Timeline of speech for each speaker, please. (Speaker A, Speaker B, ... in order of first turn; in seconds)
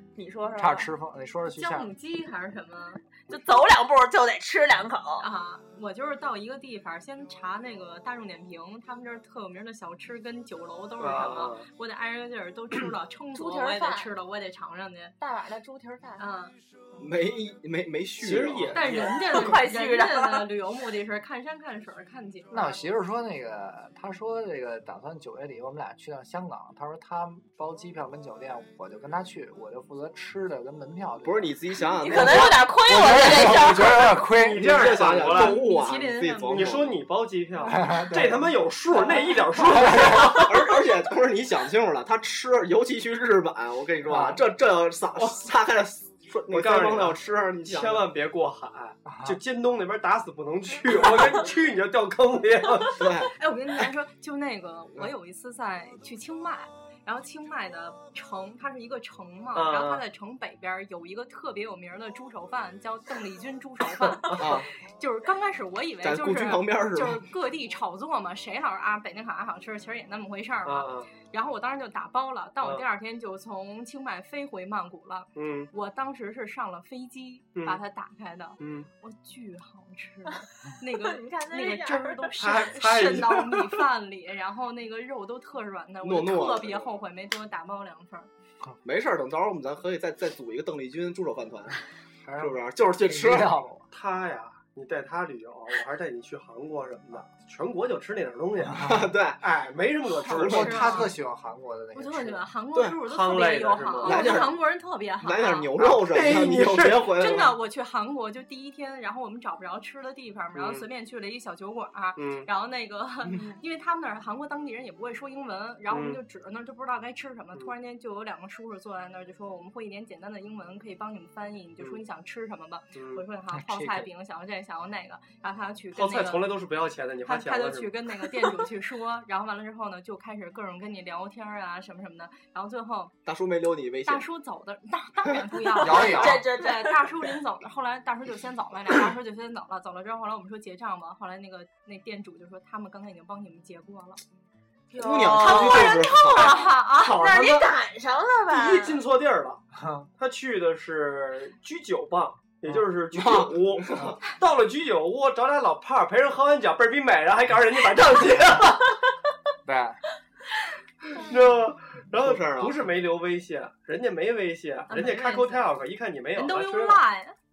Speaker A: 0.1-0.9, 3.3-5.3, 13.3-14.1, 15.2-16.2, 18.9-20.5, 31.8-34.1, 80.9-82.3, 135.9-137.3, 144.9-149.0
Speaker B: 0.6-1.9, 22.5-31.5, 32.1-34.9, 37.6-38.5, 39.6-40.4, 44.0-44.4, 49.1-49.4, 92.2-93.9, 98.6-99.1, 100.3-102.5, 123.5-124.1, 135.8-136.5, 149.7-150.1, 159.6-160.0
Speaker C: 1.5-3.1, 5.2-15.1, 16.2-16.5, 18.7-22.8, 35.2-36.7, 53.3-88.3, 100.2-101.2, 101.9-105.7, 107.1-126.5, 127.2-133.1, 134.1-144.2, 145.3-147.4, 164.9-165.7, 166.3-167.3
Speaker D: 11.0-11.7, 18.2-19.6, 34.3-35.6, 36.4-40.7, 45.1-45.4, 46.5-53.1, 59.5-60.0, 70.7-71.1, 75.3-75.7, 77.5-77.8, 78.6-78.9, 82.4-83.8, 93.9-101.0, 103.0-104.5, 105.8-107.2, 110.5-110.9, 112.2-112.5, 115.9-116.2, 122.9-123.2, 125.9-127.9, 147.0-147.7, 148.5-149.6, 150.2-158.9, 161.1-167.0
Speaker E: 17.0-18.9, 31.2-32.7, 34.5-37.0, 39.0-48.1, 52.9-53.3, 64.4-64.7, 66.0-67.2, 86.0-87.0, 88.8-91.8, 92.4-93.5, 98.8-99.4, 100.2-100.9, 104.0-107.6, 133.2-134.3, 144.9-146.6, 153.1-154.2, 162.1-162.8